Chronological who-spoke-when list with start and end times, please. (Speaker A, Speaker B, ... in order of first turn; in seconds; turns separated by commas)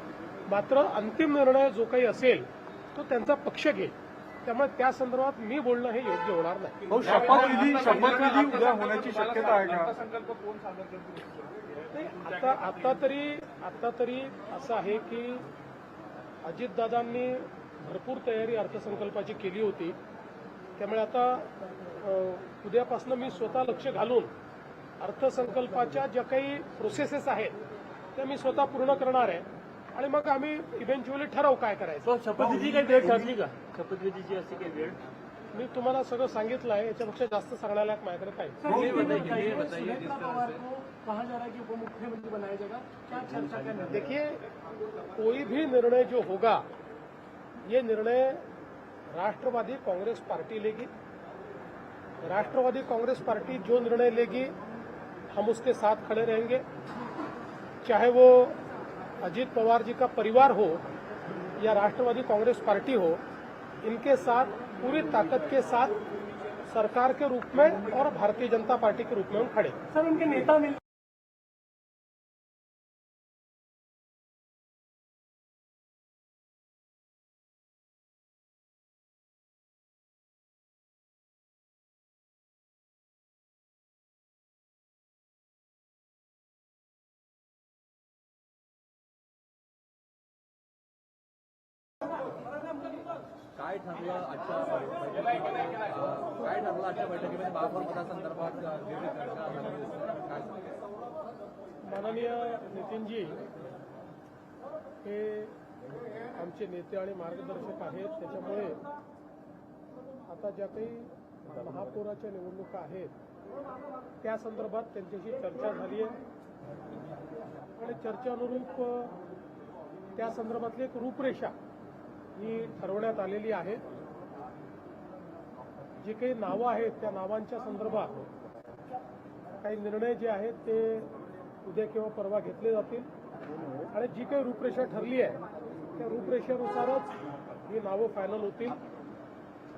Speaker A: 0.5-7.0, Speaker B: 7.1-11.8, Speaker A: 11.9-15.5, Speaker A: 16.4-20.0, Speaker A: 20.8-24.3, Speaker A: 25.0-27.6, Speaker A: 28.1-32.1, Speaker C: 32.0-35.0, Speaker A: 35.5-38.8, Speaker D: 38.7-43.8, Speaker E: 38.7-39.3, Speaker A: 43.8-44.5, Speaker A: 45.1-46.6, Speaker A: 47.6-48.5, Speaker A: 49.1-50.9, Speaker A: 52.2-54.5, Speaker A: 55.3-56.6, Speaker A: 57.8-58.6, Speaker A: 59.2-60.8, Speaker A: 61.6-63.2, Speaker A: 63.8-66.0, Speaker A: 66.7-69.8, Speaker D: 70.0-70.7, Speaker E: 93.5-100.5, Speaker A: 101.8-103.4, Speaker A: 105.0-105.6, Speaker A: 106.3-108.8, Speaker A: 110.2-113.1, Speaker A: 114.2-116.2, Speaker A: 117.8-119.2, Speaker A: 120.1-121.5, Speaker A: 122.3-123.8, Speaker A: 126.0-128.3, Speaker A: 129.6-133.1, Speaker A: 133.9-135.4, Speaker A: 135.9-137.1, Speaker A: 137.6-138.8